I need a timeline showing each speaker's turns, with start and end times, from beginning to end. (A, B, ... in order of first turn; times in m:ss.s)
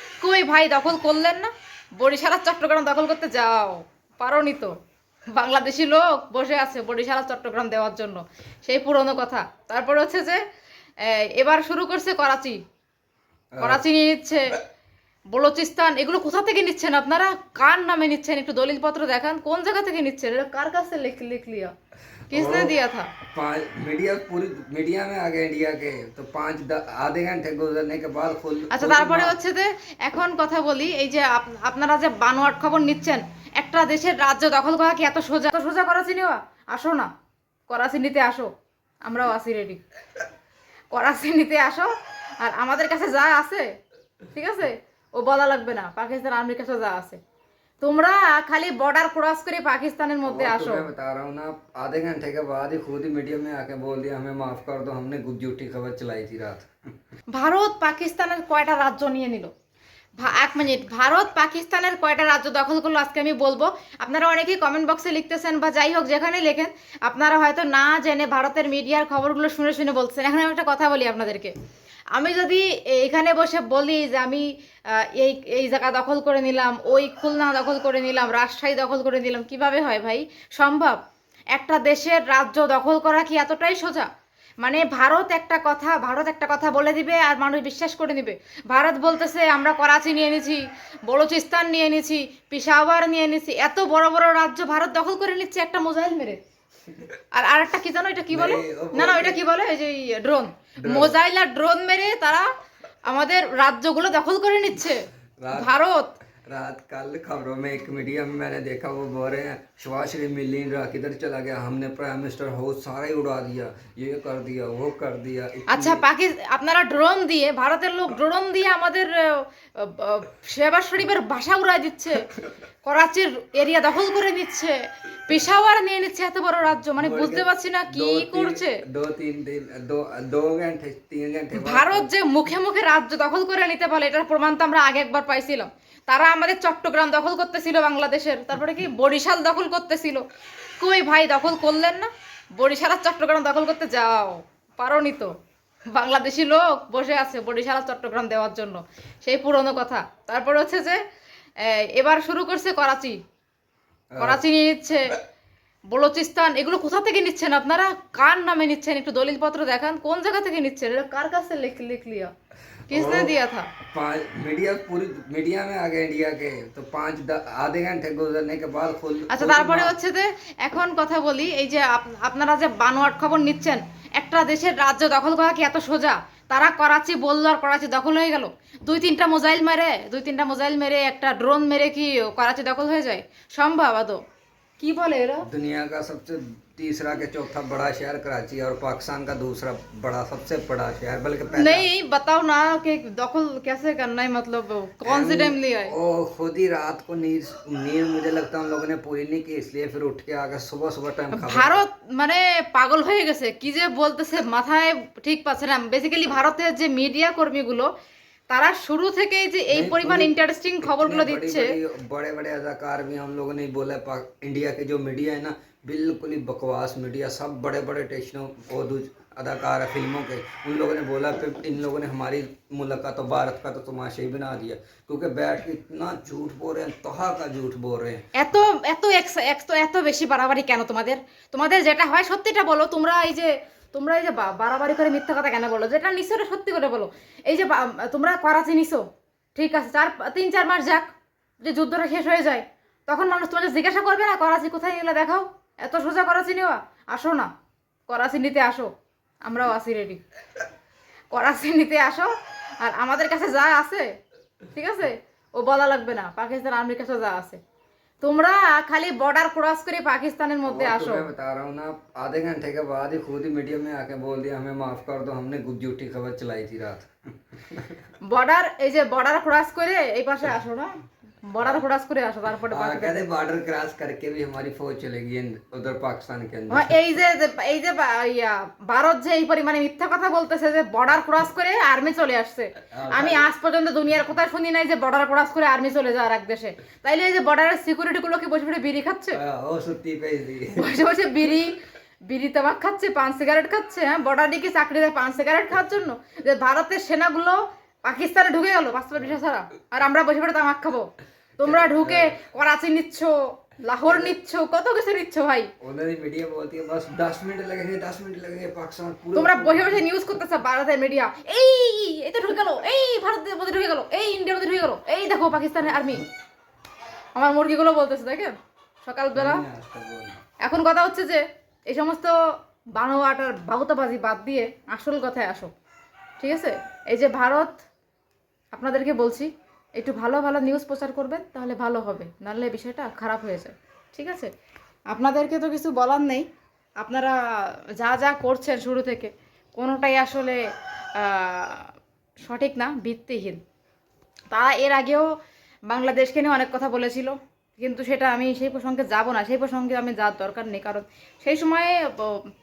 0:00.2-0:04.7 A
0:05.3-0:10.4 A
0:11.0-0:12.6 A
0:13.5-0:13.8 B
0:13.6-0:14.4 A
0:15.3-0:21.7 A
0:22.3-0:22.8 B
0:22.3-0:23.1 A
0:23.3-0:29.4 B
0:28.7-0:37.1 A
0:37.7-0:38.5 A
0:39.0-0:39.8 A
0:40.9-0:41.9 A
0:42.4-0:43.7 A
0:44.3-0:47.2 A
0:47.8-0:50.9 A
0:50.2-0:56.7 B
0:57.3-0:59.5 A
1:00.2-1:11.5 A
1:12.1-1:21.0 A
1:21.5-1:24.1 A
1:24.6-1:36.4 A
1:37.3-1:42.5 A
1:38.3-1:39.4 B
1:40.8-1:41.1 B
1:43.0-1:46.1 A
1:45.4-1:45.7 B
1:46.4-1:56.0 B
1:55.7-2:02.3 A
2:02.8-2:08.8 A
2:07.0-2:12.1 B
2:11.5-2:20.2 A
2:20.8-2:25.3 A
2:25.9-2:31.0 A
2:31.6-2:33.2 A
2:34.1-2:34.4 B
2:34.2-2:35.2 A
2:35.9-2:42.3 A
2:42.9-2:43.4 B
2:42.9-2:43.7 A
2:43.9-2:49.9 B
2:49.3-3:04.2 A
3:04.8-3:05.5 A
3:05.4-3:11.9 B
3:11.5-3:15.9 A
3:15.0-3:21.8 B
3:21.3-3:27.9 A
3:28.5-3:31.7 A
3:29.7-3:48.3 B
3:48.3-3:59.0 A
3:59.5-4:01.1 A
4:01.6-4:07.5 A
4:08.1-4:08.9 A
4:09.4-4:10.2 A
4:11.3-4:14.2 A
4:14.7-4:17.6 A
4:18.2-4:21.3 A
4:20.6-4:28.0 B
4:28.2-4:30.9 A
4:31.4-4:33.3 A
4:32.7-4:37.0 B
4:36.7-4:49.4 A
4:42.9-4:43.5 B
4:49.3-4:50.9 B
4:50.7-5:05.7 A
5:01.6-5:02.4 B
5:04.0-5:04.4 B
5:05.8-5:10.0 B
5:09.3-5:16.2 A
5:17.4-5:19.6 A
5:19.3-5:20.4 B
5:20.6-5:22.3 A
5:22.9-5:25.7 A
5:26.4-5:27.8 A
5:28.7-5:34.5 A
5:35.1-5:36.5 A
5:37.0-5:40.6 A
5:41.1-5:41.9 A
5:42.4-5:43.6 A
5:44.5-5:45.3 A
5:45.9-5:52.5 A